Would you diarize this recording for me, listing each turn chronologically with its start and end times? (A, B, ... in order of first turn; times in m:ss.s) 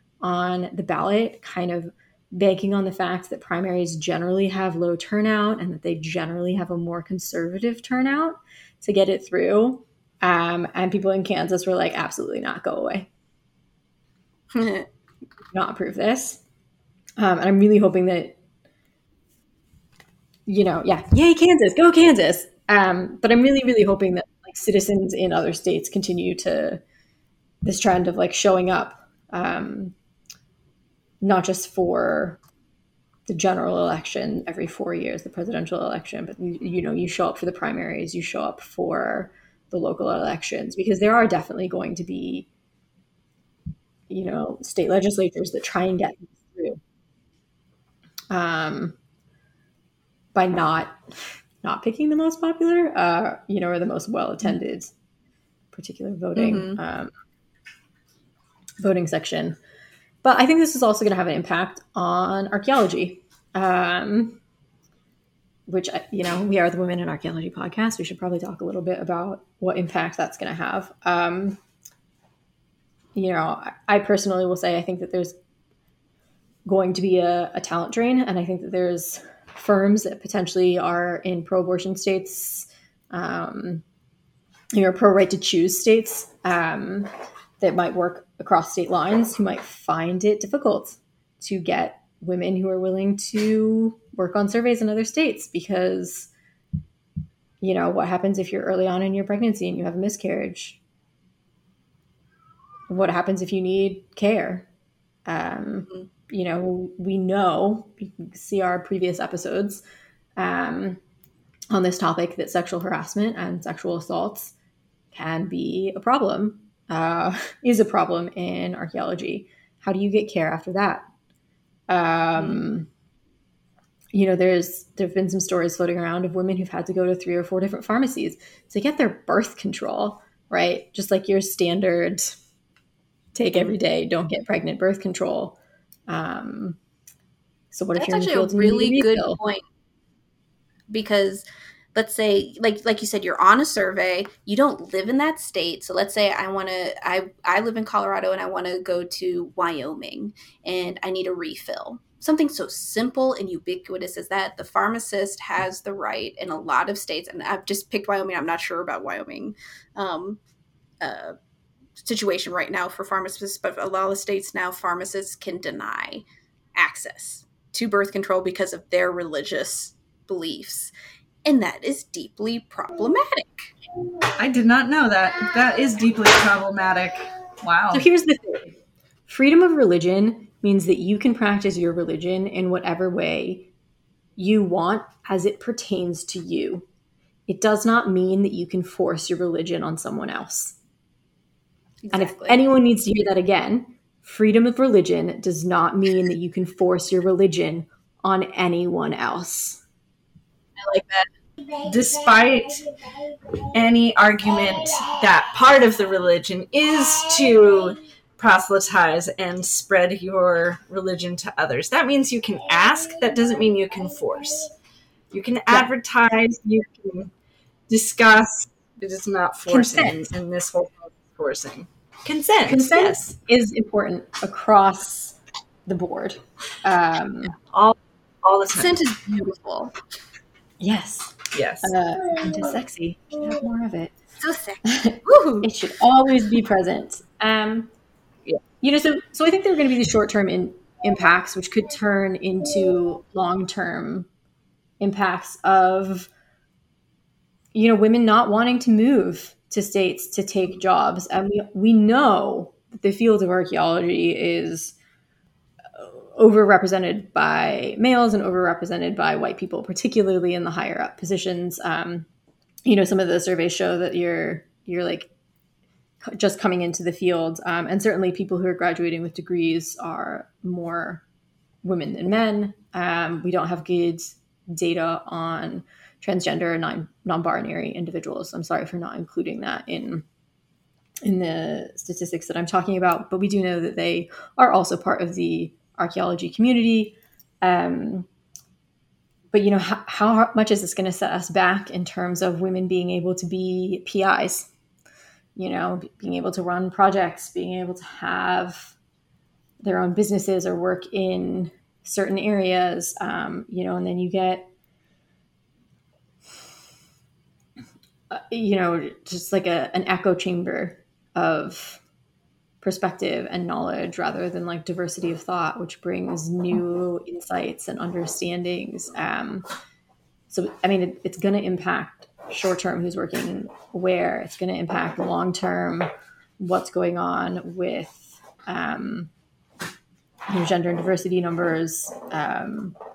0:00.2-0:13.1 A
0:14.5-0:14.9 B
0:15.5-0:16.4 A
0:17.2-0:18.4 A
0:20.5-0:26.8 A
0:27.6-0:29.9 A
0:31.2-0:32.4 A
0:33.3-0:42.5 A
0:44.1-0:46.8 A
0:48.3-0:49.0 A
0:50.3-0:51.0 A
0:51.6-0:54.9 A
0:55.7-0:57.1 A
0:56.4-0:56.8 B
0:58.8-0:59.6 A
1:00.2-1:04.4 A
1:05.7-1:11.6 A
1:13.1-1:15.4 A
1:16.6-1:23.8 A
1:24.7-1:36.3 A
1:37.6-1:40.8 A
1:42.9-1:44.7 A
1:45.2-1:49.8 A
1:50.4-1:51.0 A
1:51.7-1:54.5 A
1:55.1-2:01.1 A
2:01.9-2:02.9 A
2:04.1-2:12.4 A
2:13.3-2:15.6 A
2:16.1-2:16.8 A
2:17.7-2:19.4 A
2:17.9-2:19.6 B
2:20.9-2:40.4 B
2:41.0-2:41.4 B
2:42.0-2:46.2 B
2:46.7-2:50.9 B
2:51.4-2:53.7 B
2:54.4-2:58.1 C
2:57.9-2:58.8 A
2:59.3-3:03.7 A
3:04.4-3:06.8 A
3:07.5-3:10.8 A
3:12.0-3:12.6 B
3:12.1-3:19.8 A
3:20.8-3:21.2 B
3:21.8-3:22.9 C
3:23.7-3:34.7 C
3:35.3-3:37.3 C
3:37.9-3:43.2 C
3:39.7-3:40.2 A
3:42.7-3:47.5 A
3:47.7-3:49.0 C
3:48.7-3:49.9 B
3:50.8-3:54.1 A
3:51.5-3:51.9 C
3:54.4-3:55.7 B
3:54.8-3:57.9 A
3:58.8-4:04.3 A
4:05.0-4:06.3 A
4:07.7-4:14.9 A
4:15.9-4:22.3 A
4:22.8-4:25.3 A
4:26.2-4:31.2 A
4:31.8-4:40.2 A
4:41.2-4:48.3 A
4:49.5-4:54.7 A
4:55.6-4:58.9 A
4:59.8-5:04.7 A
5:08.3-5:12.0 A
5:12.8-5:19.7 A
5:20.5-5:29.3 A
5:30.5-5:33.0 A